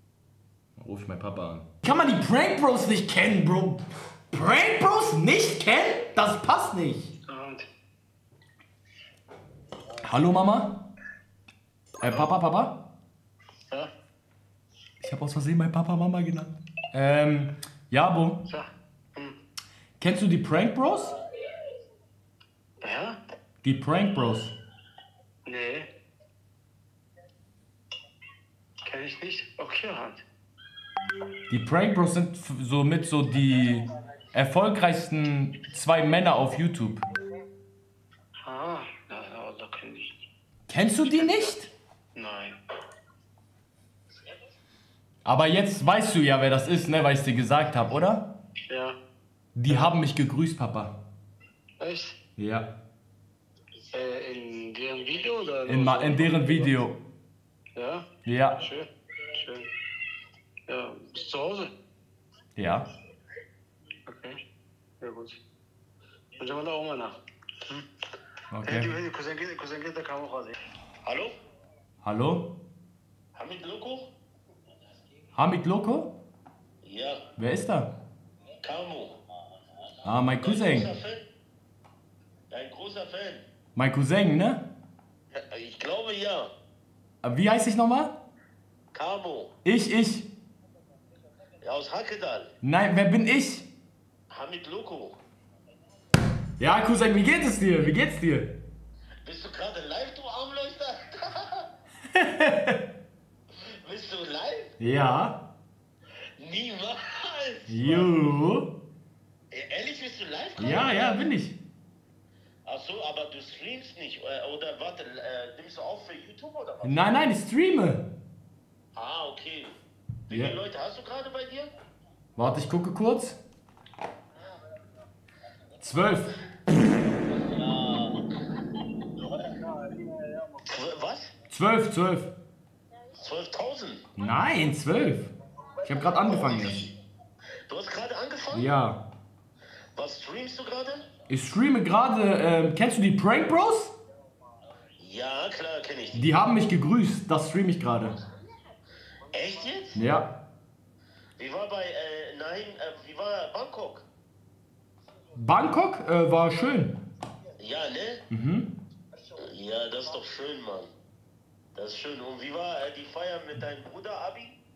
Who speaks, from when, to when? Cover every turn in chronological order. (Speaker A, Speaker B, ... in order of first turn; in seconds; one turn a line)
Speaker A: 0.8-7.2
Speaker B: 7.3-7.7
Speaker A: 10.0-10.9
Speaker A: 12.0-12.8
Speaker A: 15.0-18.4
Speaker B: 18.5-19.4
Speaker A: 20.0-21.1
Speaker B: 22.8-23.2
Speaker A: 23.6-24.6
Speaker B: 25.5-25.9
Speaker B: 28.8-30.2
Speaker A: 31.5-37.0
Speaker B: 38.4-40.1
Speaker A: 40.7-41.7
Speaker B: 41.0-41.6
Speaker B: 42.1-42.5
Speaker A: 45.2-48.4
Speaker B: 48.7-49.0
Speaker A: 49.5-51.0
Speaker B: 49.7-49.9
Speaker B: 51.8-52.2
Speaker A: 52.4-52.7
Speaker B: 53.8-56.7
Speaker A: 55.7-57.0
Speaker B: 57.8-59.7
Speaker A: 58.3-58.6
Speaker B: 60.7-61.7
Speaker A: 62.6-62.9
Speaker B: 64.1-64.4
Speaker B: 65.0-65.4
Speaker B: 66.4-67.8
Speaker A: 68.5-68.9
Speaker B: 68.6-70.5
Speaker C: 71.0-71.3
Speaker A: 72.0-72.6
Speaker C: 73.3-74.1
Speaker A: 75.4-76.2
Speaker C: 76.8-77.3
Speaker A: 77.4-77.9
Speaker C: 78.6-79.2
Speaker A: 80.0-80.9
Speaker C: 80.4-81.3
Speaker C: 82.5-83.5
Speaker A: 83.8-84.7
Speaker C: 85.3-86.5
Speaker A: 87.2-88.2
Speaker C: 88.9-89.5
Speaker A: 89.7-90.3
Speaker C: 91.6-92.5
Speaker A: 92.6-93.7
Speaker C: 94.3-95.2
Speaker A: 96.6-98.6
Speaker C: 99.2-101.7
Speaker A: 102.1-102.8
Speaker C: 103.7-104.7
Speaker A: 104.8-105.4
Speaker C: 106.4-108.1
Speaker A: 107.7-108.7
Speaker C: 109.5-111.2
Speaker A: 110.6-111.6
Speaker C: 112.7-117.2
Speaker A: 116.8-118.1
Speaker C: 119.0-119.8
Speaker C: 120.3-121.7
Speaker A: 120.3-120.5
Speaker A: 122.4-123.4
Speaker A: 125.8-126.3
Speaker C: 127.3-128.3
Speaker B: 129.5-130.6
Speaker C: 130.7-131.3
Speaker A: 131.5-132.3
Speaker C: 133.2-134.1
Speaker A: 134.2-135.3
Speaker A: 135.8-136.9
Speaker C: 136.2-136.8
Speaker C: 137.7-138.7
Speaker A: 138.5-139.0
Speaker C: 139.9-141.1
Speaker A: 141.3-143.9
Speaker C: 145.0-146.3
Speaker A: 146.2-148.2
Speaker C: 149.3-150.0
Speaker A: 149.9-150.3
Speaker C: 151.4-154.1
Speaker A: 155.3-157.0
Speaker C: 157.6-158.2
Speaker A: 158.3-158.7
Speaker C: 159.4-160.9
Speaker C: 161.8-164.6